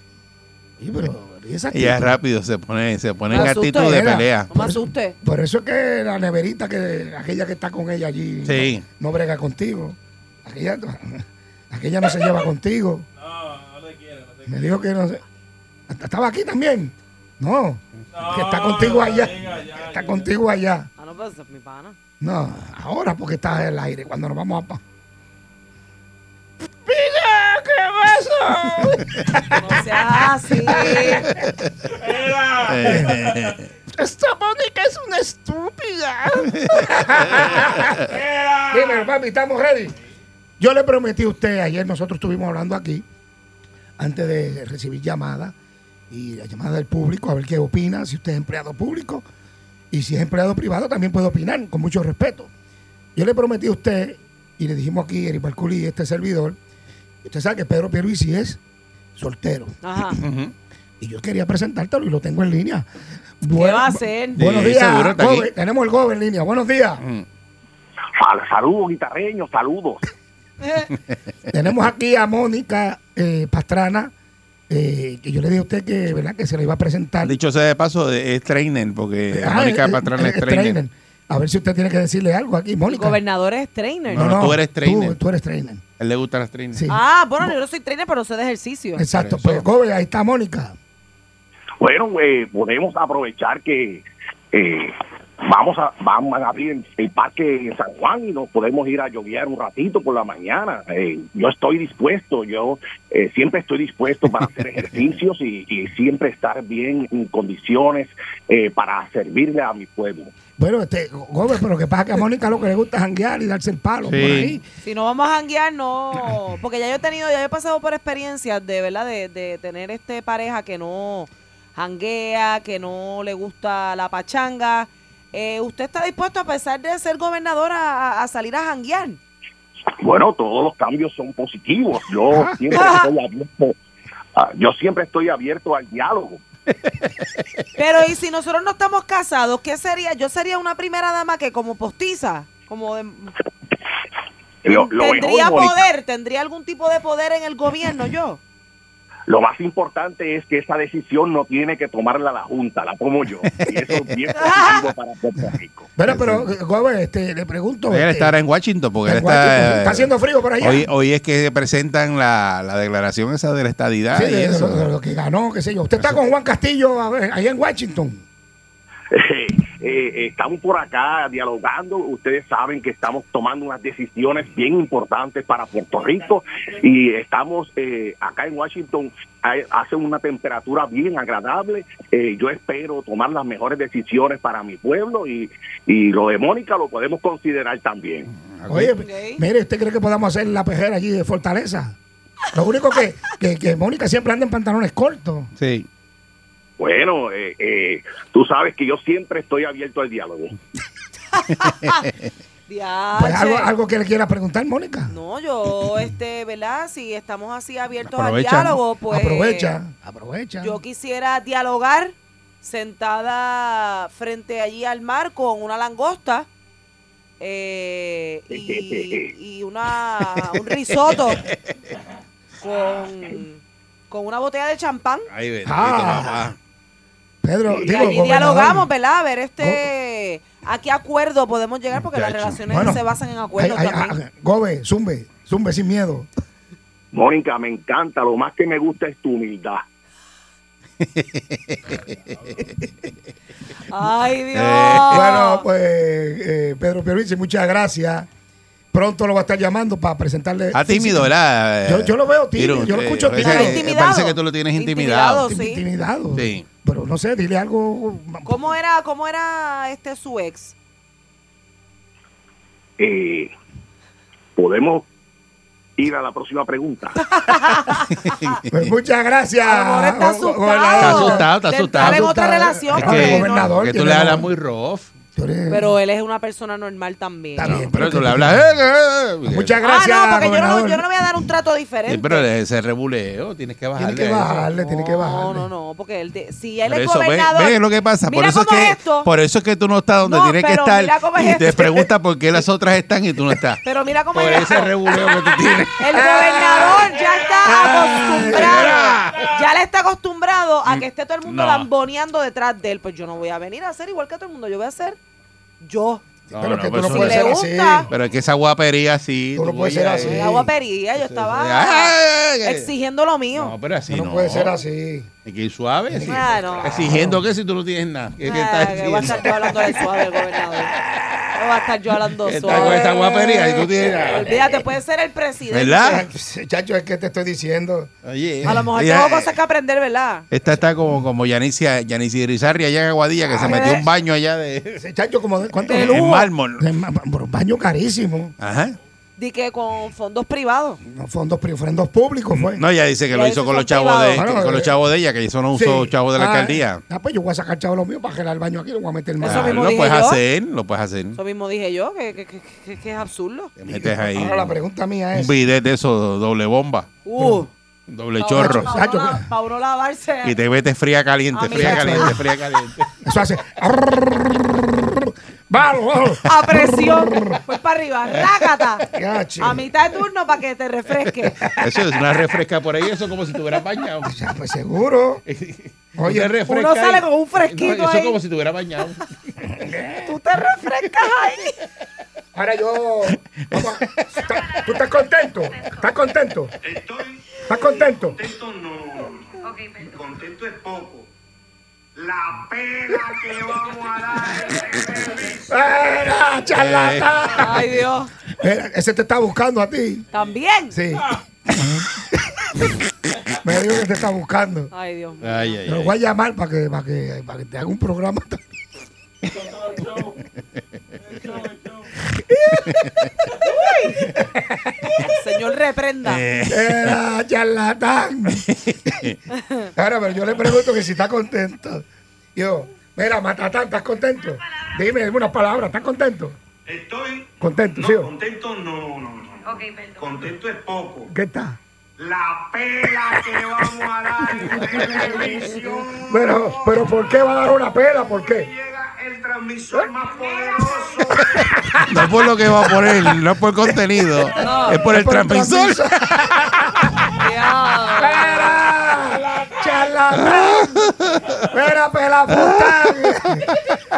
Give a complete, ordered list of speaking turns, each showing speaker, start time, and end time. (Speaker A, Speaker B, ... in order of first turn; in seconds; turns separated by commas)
Speaker A: 0.8-2.1, Speaker B: 1.7-4.5, Speaker C: 3.3-4.0, Speaker A: 3.3-13.1, Speaker C: 4.5-5.2, Speaker B: 8.4-8.8, Speaker D: 13.2-14.8, Speaker A: 14.5-15.2, Speaker A: 15.9-20.9, Speaker D: 18.1-20.3, Speaker C: 21.0-21.9, Speaker A: 22.2-24.8, Speaker B: 26.9-29.2, Speaker A: 27.8-30.0, Speaker C: 29.5-31.3, Speaker A: 30.7-31.2, Speaker B: 31.2-31.6, Speaker D: 32.0-33.6, Speaker B: 32.6-37.4, Speaker A: 32.9-33.2, Speaker A: 34.0-38.1, Speaker D: 38.1-39.1, Speaker A: 38.7-39.9, Speaker A: 40.6-43.0, Speaker A: 44.0-45.5, Speaker A: 46.1-49.2, Speaker A: 49.9-52.5, Speaker A: 53.1-56.6, Speaker A: 57.2-58.6, Speaker A: 59.1-60.2, Speaker C: 59.8-60.2, Speaker B: 60.2-60.5, Speaker A: 61.0-62.9, Speaker A: 63.4-67.0, Speaker C: 63.5-64.4, Speaker B: 64.4-65.5, Speaker E: 68.2-70.0, Speaker C: 70.6-70.9, Speaker A: 71.5-74.1, Speaker A: 74.7-77.4, Speaker B: 77.2-80.8, Speaker A: 79.3-83.2, Speaker C: 82.9-84.2, Speaker B: 84.1-85.2, Speaker A: 84.1-85.8, Speaker B: 86.0-86.8, Speaker A: 86.7-87.5, Speaker C: 86.9-89.0, Speaker A: 89.0-90.8, Speaker B: 89.1-89.6, Speaker E: 91.8-110.3, Speaker A: 110.6-114.6, Speaker B: 114.0-114.6, Speaker C: 114.8-129.2, Speaker E: 130.0-133.8, Speaker A: 132.3-132.6, Speaker C: 132.7-133.1, Speaker E: 134.3-136.4, Speaker C: 137.8-143.3, Speaker E: 144.6-145.8, Speaker C: 144.7-148.4, Speaker E: 149.3-155.9, Speaker C: 154.3-154.8, Speaker A: 155.4-158.3, Speaker B: 156.1-156.5, Speaker B: 157.9-164.9, Speaker A: 159.0-160.9, Speaker A: 164.1-168.2, Speaker E: 169.1-188.3, Speaker B: 188.4-188.9, Speaker A: 188.7-192.0, Speaker C: 189.0-189.4, Speaker A: 192.5-195.5, Speaker B: 195.6-195.9, Speaker E: 196.8-200.6, Speaker C: 201.3-202.1, Speaker C: 202.7-203.7, Speaker A: 203.1-205.1, Speaker C: 205.1-209.8, Speaker B: 208.1-208.8, Speaker A: 209.1-210.8, Speaker C: 210.6-216.5, Speaker C: 217.4-221.4, Speaker E: 218.5-219.3, Speaker C: 222.6-225.3, Speaker B: 225.3-226.6, Speaker A: 225.6-226.5, Speaker A: 227.4-228.9, Speaker E: 227.7-228.2, Speaker C: 227.9-234.2, Speaker A: 229.6-229.9, Speaker B: 232.0-232.6, Speaker A: 232.7-233.0, Speaker A: 233.6-236.3, Speaker E: 237.1-239.8, Speaker B: 241.0-242.0, Speaker C: 243.9-245.6, Speaker B: 244.5-245.3, Speaker A: 245.1-248.3, Speaker A: 248.9-251.3, Speaker B: 250.7-255.4, Speaker A: 251.8-253.8, Speaker C: 253.4-255.8, Speaker A: 255.4-258.7, Speaker B: 256.4-256.6, Speaker C: 258.4-260.7, Speaker E: 263.0-263.5, Speaker E: 264.6-265.1, Speaker E: 266.0-267.2, Speaker C: 267.4-268.4, Speaker A: 268.7-274.5, Speaker C: 269.6-273.6, Speaker B: 271.0-272.3, Speaker B: 272.9-275.1, Speaker A: 275.3-275.9, Speaker C: 275.7-277.8, Speaker A: 277.6-278.6, Speaker B: 277.6-279.8, Speaker A: 279.4-281.1, Speaker C: 279.8-282.5, Speaker B: 282.1-284.7, Speaker A: 283.9-285.7, Speaker C: 284.8-289.3, Speaker B: 286.9-293.8, Speaker C: 290.2-292.1, Speaker C: 293.8-294.9, Speaker B: 294.3-296.3, Speaker C: 296.0-305.2, Speaker A: 296.1-297.0, Speaker A: 297.7-298.9, Speaker B: 298.2-299.5, Speaker B: 300.9-301.9, Speaker C: 305.8-306.2, Speaker B: 306.5-307.5, Speaker A: 306.5-308.1, Speaker C: 307.1-308.1, Speaker B: 308.1-310.5, Speaker A: 309.6-310.7, Speaker C: 310.2-313.7, Speaker B: 311.2-312.9, Speaker B: 313.5-314.8, Speaker A: 314.1-315.3, Speaker B: 315.4-320.0, Speaker A: 316.1-317.4, Speaker C: 316.3-316.9, Speaker C: 318.4-320.9, Speaker C: 321.5-326.1, Speaker B: 322.4-324.5, Speaker A: 322.7-324.8, Speaker B: 325.7-326.2, Speaker A: 326.0-328.1, Speaker B: 328.2-329.5, Speaker A: 328.6-328.9, Speaker C: 328.6-330.4, Speaker B: 330.5-335.0, Speaker A: 333.5-334.0, Speaker C: 333.6-334.0, Speaker A: 335.0-336.2, Speaker C: 335.8-336.5, Speaker B: 335.9-336.9, Speaker A: 336.8-338.5, Speaker B: 338.6-338.9, Speaker C: 339.4-341.0, Speaker A: 341.0-342.8, Speaker B: 342.6-347.0, Speaker C: 343.3-344.4, Speaker A: 344.3-344.9, Speaker A: 345.7-349.9, Speaker C: 349.4-350.4, Speaker B: 349.4-351.4, Speaker C: 351.4-353.7, Speaker B: 353.8-354.7, Speaker A: 353.9-355.5, Speaker B: 355.3-357.1, Speaker C: 357.2-357.7, Speaker A: 357.4-357.6, Speaker B: 358.1-358.9, Speaker C: 358.4-360.5, Speaker A: 358.5-359.5, Speaker B: 360.4-363.1, Speaker C: 361.5-362.3, Speaker A: 361.7-362.4, Speaker A: 363.2-367.6, Speaker C: 366.4-369.1, Speaker A: 369.1-369.9, Speaker C: 369.6-371.6, Speaker A: 371.6-372.4, Speaker B: 371.8-374.3, Speaker A: 374.2-375.4, Speaker B: 375.5-379.3, Speaker A: 376.2-376.6, Speaker C: 376.6-378.4, Speaker A: 379.6-380.4, Speaker C: 380.2-381.8, Speaker A: 382.5-386.7, Speaker B: 383.7-384.5, Speaker F: 386.8-391.3, Speaker A: 387.7-388.4, Speaker F: 392.1-395.7, Speaker A: 395.7-397.9, Speaker B: 396.7-397.3, Speaker C: 397.6-398.3, Speaker A: 398.6-400.2, Speaker C: 400.3-400.9, Speaker A: 400.9-402.9, Speaker A: 403.6-404.9, Speaker C: 404.9-405.7, Speaker B: 405.4-406.1, Speaker A: 405.8-408.6, Speaker D: 409.5-410.4, Speaker D: 411.2-412.1, Speaker A: 412.3-413.0, Speaker C: 413.6-414.2, Speaker A: 414.2-415.3, Speaker C: 415.3-416.4, Speaker B: 416.2-417.2, Speaker A: 416.7-419.2, Speaker B: 418.7-419.4, Speaker C: 419.5-419.9, Speaker A: 419.9-426.6, Speaker F: 426.9-431.3, Speaker A: 427.6-428.3, Speaker A: 431.3-431.8, Speaker F: 432.2-437.1, Speaker A: 434.6-435.7, Speaker A: 436.3-438.7, Speaker F: 438.2-441.8, Speaker A: 441.5-444.0, Speaker B: 442.1-446.6, Speaker C: 444.6-445.0, Speaker A: 444.9-447.3, Speaker C: 447.4-448.8, Speaker A: 448.2-451.1, Speaker B: 450.4-451.4, Speaker A: 451.7-453.7, Speaker B: 452.5-454.0